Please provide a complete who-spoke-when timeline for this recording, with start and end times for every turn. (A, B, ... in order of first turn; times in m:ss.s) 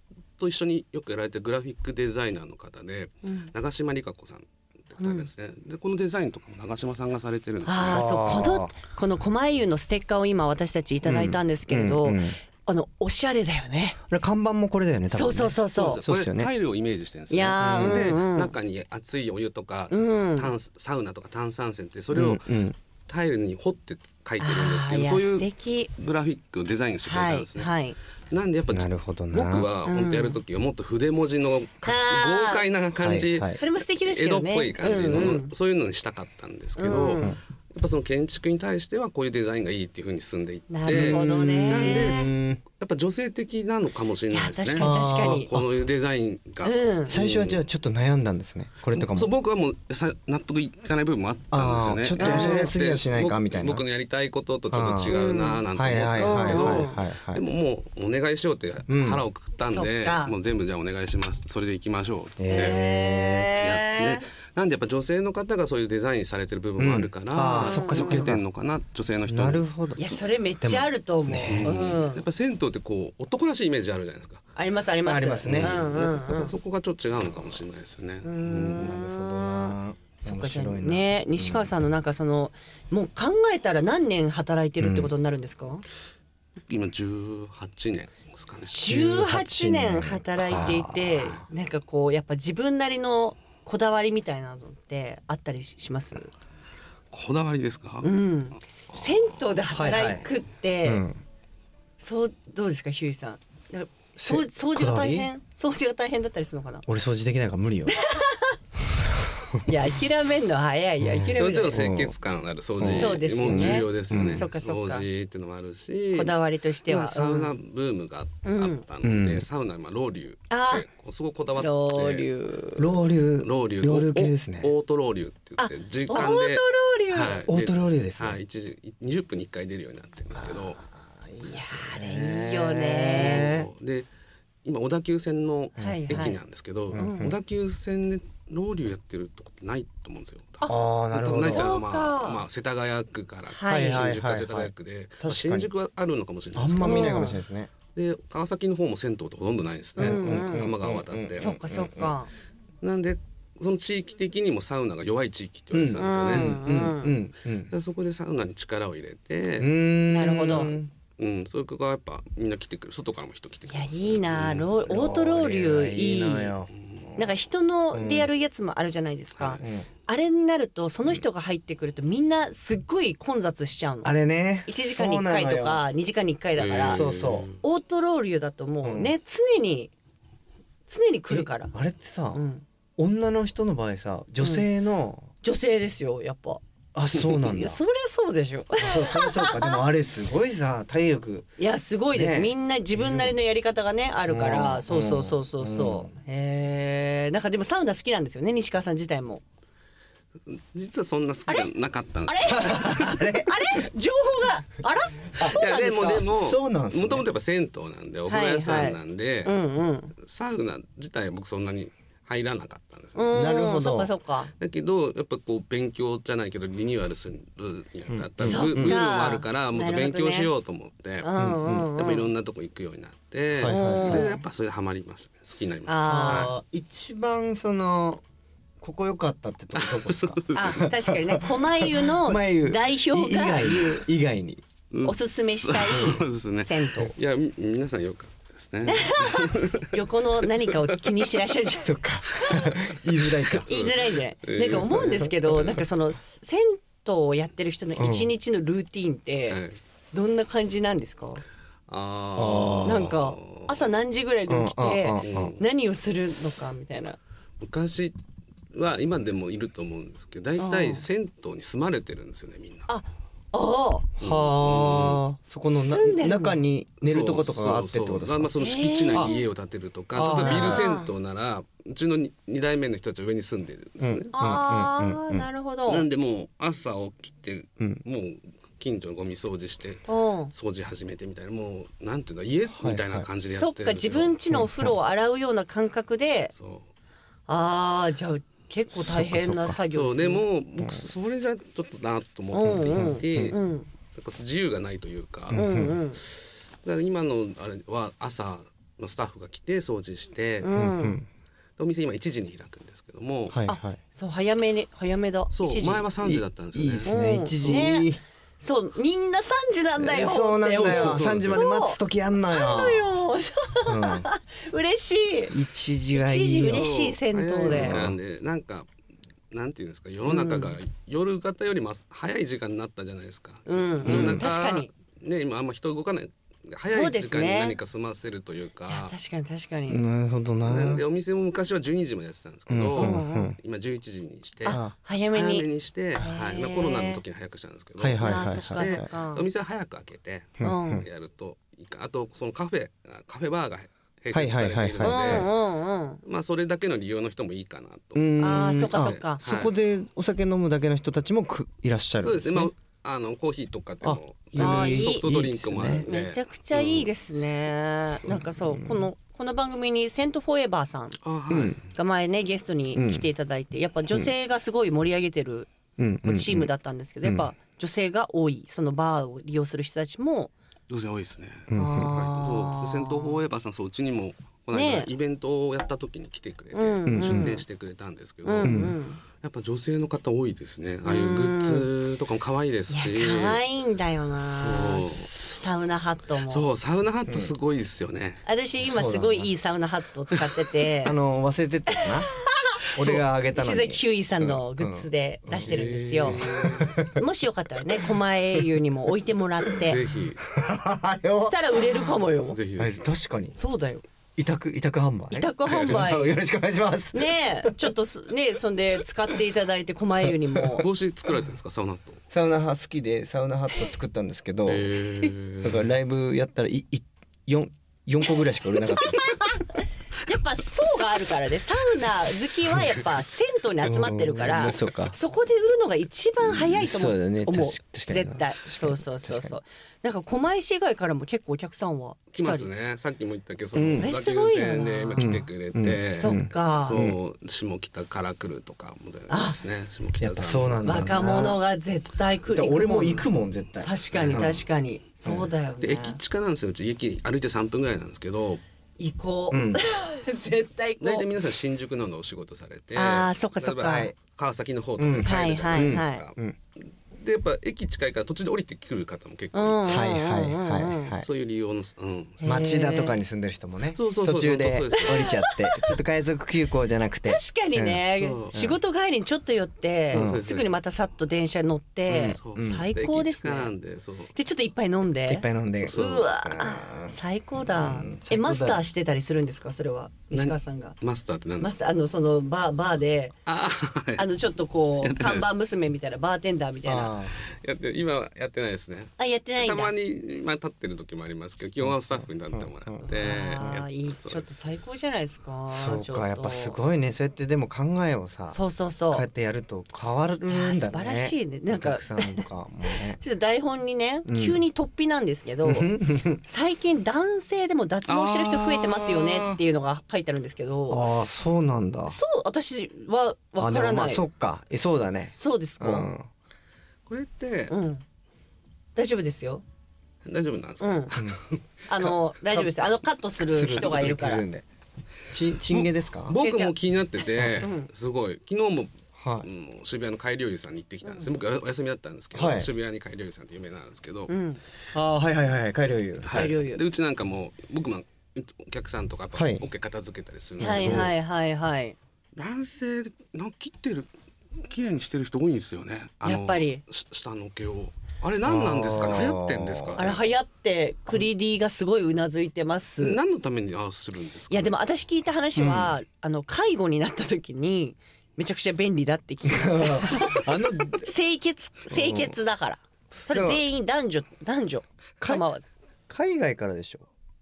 0:00.4-0:08.1 A
0:03.2-0:03.5 B
0:05.0-0:05.3 B
0:07.6-0:14.0 B
0:07.9-0:08.7 C
0:11.0-0:12.4 C
0:14.1-0:16.5 C
0:15.1-0:16.0 B
0:15.7-0:27.7 A
0:17.3-0:18.5 B
0:17.6-0:18.1 C
0:19.9-0:20.5 B
0:22.1-0:22.7 C
0:24.4-0:25.9 B
0:27.0-0:28.0 B
0:28.3-0:47.6 A
0:28.7-0:29.7 C
0:29.8-0:30.4 B
0:31.8-0:32.6 B
0:33.0-0:33.5 C
0:33.5-0:35.5 B
0:36.8-0:37.4 B
0:36.9-0:37.4 C
0:40.7-0:42.3 B
0:40.9-0:42.6 C
0:44.3-0:45.5 B
0:44.8-0:45.7 C
0:46.6-0:47.2 B
0:47.1-0:49.3 C
0:48.9-1:02.8 A
0:51.5-0:53.8 C
0:52.2-0:52.7 B
0:54.7-0:55.2 C
0:55.1-0:55.6 B
0:55.7-0:57.4 C
0:56.2-0:57.0 B
0:58.9-0:59.2 C
0:59.7-1:00.3 B
1:02.4-1:03.5 C
1:02.5-1:04.3 B
1:03.6-1:09.6 A
1:06.8-1:08.4 C
1:07.5-1:08.3 B
1:09.3-1:10.0 C
1:10.0-1:12.2 B
1:10.6-1:11.7 C
1:11.4-1:14.4 A
1:14.6-1:16.5 B
1:15.0-1:15.8 C
1:15.4-1:18.9 A
1:18.2-1:25.8 B
1:18.7-1:21.7 C
1:24.8-1:25.1 C
1:26.7-1:29.0 A
1:28.7-1:36.3 B
1:28.8-1:31.4 C
1:30.6-1:31.4 A
1:37.1-1:38.1 A
1:38.0-1:41.0 B
1:38.9-1:39.3 A
1:39.7-1:40.3 C
1:40.8-1:41.2 C
1:42.0-1:46.8 B
1:44.2-1:45.3 C
1:46.8-1:47.9 C
1:47.9-1:48.6 B
1:49.6-1:51.8 B
1:51.0-1:52.1 C
1:51.4-2:02.3 A
1:52.8-1:54.4 C
1:52.8-1:55.0 B
1:56.1-1:57.5 B
1:58.4-1:58.8 B
1:59.0-1:59.4 C
2:00.5-2:00.8 B
2:01.6-2:02.9 B
2:02.8-2:04.7 C
2:03.4-2:10.8 A
2:05.6-2:07.4 B
2:07.5-2:08.4 C
2:10.4-2:13.7 C
2:11.4-2:13.5 B
2:13.1-2:14.1 A
2:14.6-2:27.3 A
2:15.8-2:16.2 C
2:15.8-2:16.4 B
2:16.9-2:17.4 C
2:17.0-2:17.3 B
2:20.6-2:21.7 C
2:21.4-2:22.4 B
2:23.5-2:24.1 B
2:23.7-2:25.7 C
2:26.5-2:27.7 C
2:26.8-2:27.4 B
2:27.9-2:31.5 A
2:30.0-2:30.7 B
2:30.0-2:32.1 C
2:31.4-2:32.3 B
2:32.8-2:36.6 A
2:35.7-2:37.7 C
2:36.0-2:37.1 B
2:37.7-2:39.7 A
2:39.6-2:40.9 C
2:40.1-2:40.7 B
2:40.5-2:44.7 A
2:43.7-2:46.5 B
2:44.8-2:47.2 C
2:46.8-2:47.0 A
2:47.2-2:54.1 B
2:47.9-2:48.3 C
2:49.4-2:49.6 A
2:49.6-2:49.9 C
2:54.0-2:55.8 C
2:54.7-2:57.0 B
2:56.6-2:57.6 A
2:56.9-2:57.5 C
2:57.6-2:59.9 B
2:58.8-2:59.1 C
3:00.9-3:01.7 B
3:01.3-3:02.4 C
3:02.3-3:02.6 B
3:03.0-3:05.3 C
3:04.4-3:04.6 B
3:05.4-3:09.8 B
3:06.9-3:07.8 C
3:08.8-3:11.5 C
3:11.6-3:19.4 B
3:12.1-3:13.3 C
3:14.3-3:16.1 C
3:20.5-3:23.1 A
3:22.3-3:26.2 B
3:22.5-3:23.8 C
3:25.4-3:27.2 C
3:25.4-3:29.6 A
3:28.3-3:30.1 B
3:30.2-3:33.4 A
3:33.1-3:34.5 B
3:33.3-3:34.1 C
3:34.6-3:41.3 A
3:38.1-3:39.0 C
3:38.4-3:40.5 B
3:41.2-3:42.3 B
3:41.4-3:41.9 C
3:41.9-3:46.5 A
3:43.6-3:44.3 C
3:43.7-3:44.4 B
3:45.9-3:46.5 B
3:46.1-3:48.2 C
3:48.8-3:54.6 C
3:49.7-3:50.8 A
3:50.5-3:54.0 B
3:54.9-4:01.3 A
3:55.0-3:57.1 B
3:58.8-4:01.9 B
4:01.8-4:03.7 C
4:02.4-4:02.8 A
4:03.4-4:05.8 A
4:03.6-4:09.6 B
4:08.0-4:08.3 C
4:09.5-4:09.8 A
4:10.1-4:11.4 B
4:11.9-4:13.9 A
4:12.4-4:13.1 C
4:12.8-4:17.2 B
4:14.5-4:15.5 C
4:15.2-4:15.6 A
4:17.6-4:18.1 A
4:18.7-4:22.9 A
4:20.6-4:21.0 B
4:22.9-4:24.1 B
4:24.2-4:25.2 A
4:24.2-4:28.6 C
4:25.7-4:26.6 B
4:27.0-4:34.3 A
4:28.6-4:29.4 B
4:30.1-4:30.9 C
4:30.3-4:31.1 B
4:34.0-4:35.4 C
4:34.3-4:36.0 B
4:35.9-4:44.4 A
4:40.1-4:40.5 B
4:42.7-4:43.3 C
4:43.5-4:46.5 B
4:44.5-4:45.0 C
4:46.5-4:46.9 A
4:47.5-4:50.4 B
4:48.9-4:49.8 C
4:49.9-4:53.6 A
4:50.8-4:51.0 C
4:52.5-4:53.9 B
4:52.9-4:53.5 C
4:54.1-4:55.6 A
4:55.5-4:56.0 C
4:55.5-4:56.2 B
4:56.2-5:00.7 A
5:00.6-5:01.2 B
5:00.7-5:01.3 C
5:01.8-5:03.6 A
5:03.5-5:04.0 C
5:03.6-5:06.0 B
5:05.5-5:07.1 A
5:06.2-5:08.2 C
5:07.0-5:08.1 B
5:08.6-5:12.0 B
5:10.0-5:13.1 C
5:10.7-5:11.7 A
5:12.5-5:15.5 B
5:13.9-5:14.3 C
5:15.5-5:16.9 C
5:16.1-5:18.1 B
5:16.7-5:18.9 A
5:17.6-5:18.2 C
5:19.5-5:29.1 A
5:20.3-5:20.8 B
5:23.7-5:24.9 B
5:24.0-5:24.5 C
5:26.9-5:27.8 B
5:28.9-5:30.0 B
5:29.9-5:31.0 C
5:30.6-5:34.8 A
5:32.7-5:33.6 C
5:33.0-5:33.5 B
5:34.6-5:37.2 B
5:34.7-5:34.9 C
5:35.3-5:45.5 A
5:38.0-5:39.0 C
5:38.2-5:39.4 B
5:40.6-5:41.0 C
5:40.6-5:41.0 B
5:44.3-5:45.5 C
5:45.0-5:46.2 B
5:46.2-5:48.3 A
5:48.1-5:52.7 C
5:48.4-5:49.4 B
5:48.9-5:49.7 A
5:52.2-5:57.1 A
5:54.0-5:56.1 C
5:54.6-5:55.2 B
5:56.0-6:01.2 B
5:58.3-5:59.1 C
6:01.2-6:01.8 A
6:01.5-6:01.8 C
6:01.8-6:05.7 B
6:02.9-6:03.2 C
6:06.0-6:06.7 C
6:06.2-6:10.5 B
6:07.2-6:07.5 C
6:10.9-6:23.6 A
6:11.7-6:12.1 C
6:11.7-6:13.4 B
6:14.7-6:15.1 B
6:16.7-6:17.6 B
6:17.1-6:17.6 C
6:18.4-6:19.2 B
6:18.6-6:18.9 C
6:21.0-6:21.9 B
6:22.9-6:26.7 B
6:24.5-6:25.3 A
6:26.5-6:28.4 A
6:28.4-6:31.2 B
6:28.8-6:29.5 C
6:31.0-6:32.3 C
6:32.5-6:32.8 B
6:32.9-6:37.2 C
6:33.5-6:36.5 B
6:35.6-6:37.0 A
6:37.1-6:40.0 B
6:39.8-6:40.4 A
6:40.5-6:42.1 C
6:41.4-6:42.6 B
6:42.5-6:43.0 A
6:42.8-6:43.5 C
6:43.5-6:44.0 B
6:44.4-6:47.9 C
6:45.3-6:46.3 B
6:45.6-6:46.1 A
6:47.1-6:50.8 B
6:50.5-6:50.8 C
6:50.8-6:52.2 A
6:52.3-6:59.3 C
6:54.6-6:55.8 A
6:58.9-6:59.6 B
7:00.2-7:12.7 B
7:03.8-7:05.1 C
7:06.4-7:09.6 C
7:12.3-7:21.3 A
7:13.7-7:14.1 C
7:13.8-7:15.4 B
7:15.2-7:17.2 C
7:16.1-7:17.0 B
7:19.3-7:19.6 B
7:20.2-7:21.6 C
7:20.8-7:23.3 B
7:22.5-7:24.6 C
7:23.8-7:26.2 B
7:24.1-7:24.6 A
7:25.8-7:28.6 A
7:29.0-7:31.3 B
7:29.5-7:29.8 C
7:31.0-7:36.4 A
7:32.9-7:34.1 B
7:33.8-7:34.1 C
7:35.0-7:36.6 C
7:35.2-7:36.2 B
7:37.1-7:39.9 A
7:39.5-7:41.1 B
7:39.8-7:41.2 C
7:41.2-7:42.4 A
7:42.4-7:43.2 B
7:42.4-7:48.8 C
7:43.9-7:45.3 A
7:45.1-7:46.0 B
7:47.2-7:53.7 B
7:48.1-7:48.6 A
7:50.1-7:50.8 A
7:50.1-7:50.4 C
7:52.1-7:52.9 C
7:52.2-7:54.3 A
7:54.3-8:01.0 B
7:55.3-7:58.8 C
7:55.8-7:56.3 A
8:00.3-8:01.8 A
8:01.6-8:03.3 B
8:03.4-8:04.3 A
8:04.2-8:07.1 B
8:05.0-8:05.5 A
8:06.8-8:07.4 C
8:07.3-8:14.5 A
8:09.2-8:09.9 B
8:11.8-8:13.1 C
8:13.1-8:16.8 B
8:15.7-8:18.6 C
8:18.5-8:19.2 B
8:19.1-8:23.2 C
8:20.4-8:25.9 B
8:24.2-8:24.6 C
8:25.6-8:26.4 C
8:26.4-8:31.1 B
8:28.1-8:29.6 A
8:30.9-8:32.2 C
8:32.1-8:34.2 B
8:33.6-8:36.3 C
8:35.3-8:36.1 B
8:37.1-8:37.7 A
8:37.7-8:38.0 B
8:39.0-8:39.6 B
8:40.2-8:41.6 A
8:40.8-8:41.1 B
8:41.9-8:44.4 B
8:43.4-8:44.6 C
8:45.3-8:46.3 C
8:45.7-8:54.3 A
8:46.3-8:46.7 B
8:47.6-8:47.9 B
8:49.2-8:49.5 C
8:52.3-8:52.7 C
8:54.3-8:54.6 B
8:54.9-8:56.5 C
8:56.2-9:01.1 A
8:56.3-8:56.8 B
8:59.3-8:59.6 C
9:00.6-9:02.0 B
9:00.6-9:01.1 C
9:02.4-9:10.2 A
9:06.2-9:06.8 B
9:08.4-9:10.2 C
9:10.0-9:13.2 B
9:13.0-9:14.8 A
9:14.5-9:25.6 B
9:15.6-9:15.9 C
9:19.4-9:21.1 C
9:21.9-9:22.3 C
9:23.2-9:23.6 C
9:26.1-9:27.1 C